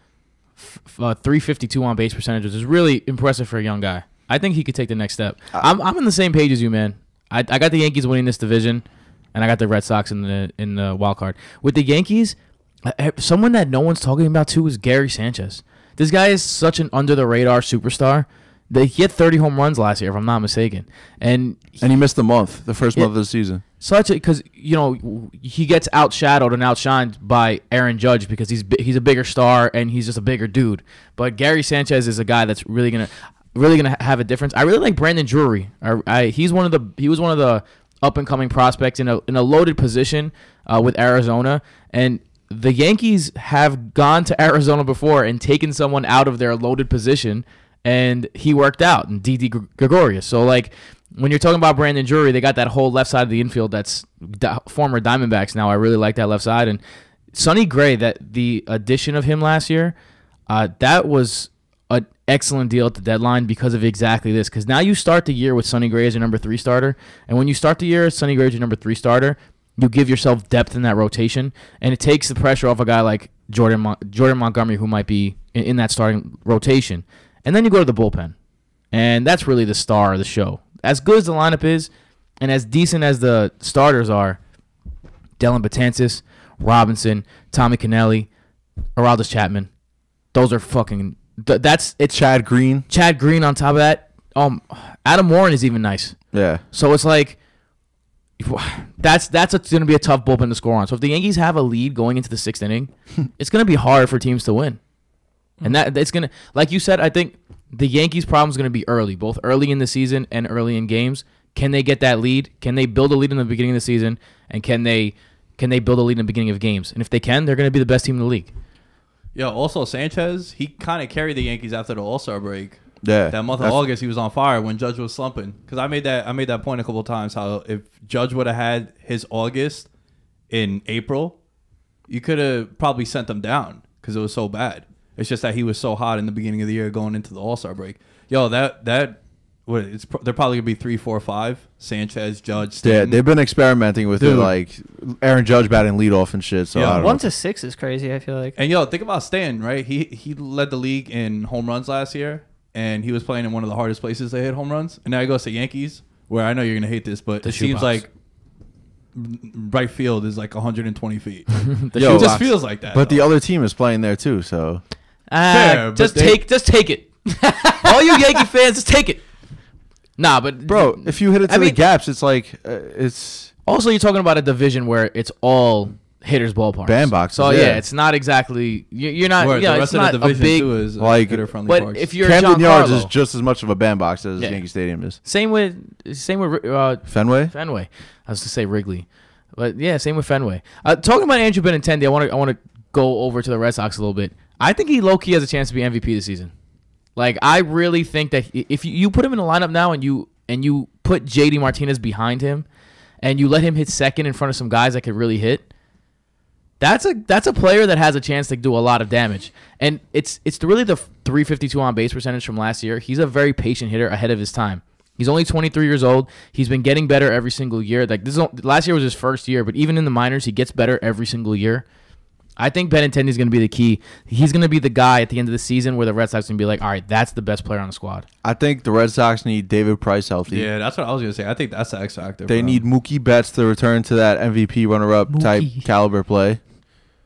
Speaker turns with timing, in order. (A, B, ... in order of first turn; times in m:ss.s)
0:00.6-0:22.0 A
0:21.8-0:23.6 B
0:23.8-0:56.8 A
0:57.3-0:59.9 A
1:00.5-1:18.4 A
1:18.9-1:24.4 A
1:25.4-1:28.3 A
1:29.0-1:29.7 A
1:30.3-1:32.3 A
1:32.1-1:32.9 B
1:32.9-1:37.4 A
1:36.3-1:36.6 B
1:38.4-1:44.8 A
1:45.6-1:58.5 A
1:59.3-2:09.9 C
2:03.0-2:03.8 B
2:10.5-2:11.4 C
2:12.1-2:23.2 C
2:22.8-2:27.3 B
2:24.2-2:24.5 C
2:26.7-2:27.1 C
2:26.9-2:28.6 D
2:28.5-2:38.1 C
2:37.4-2:38.0 A
2:39.1-2:43.3 C
2:41.6-2:42.5 A
2:41.9-2:44.8 B
2:45.3-2:49.3 A
2:45.5-2:46.5 C
2:50.2-2:51.8 A
2:50.7-2:53.5 B
2:53.6-3:00.9 A
2:56.8-2:57.8 B
2:59.4-3:02.2 C
3:01.0-3:01.6 B
3:01.6-3:03.1 A
3:02.2-3:05.2 B
3:04.4-3:16.5 A
3:07.0-3:07.5 B
3:17.1-3:22.6 A
3:23.2-3:25.6 A
3:26.8-3:41.8 A
3:42.6-3:48.2 A
3:48.4-3:50.7 B
3:50.5-3:52.8 C
3:52.4-3:56.7 B
3:55.3-3:55.8 D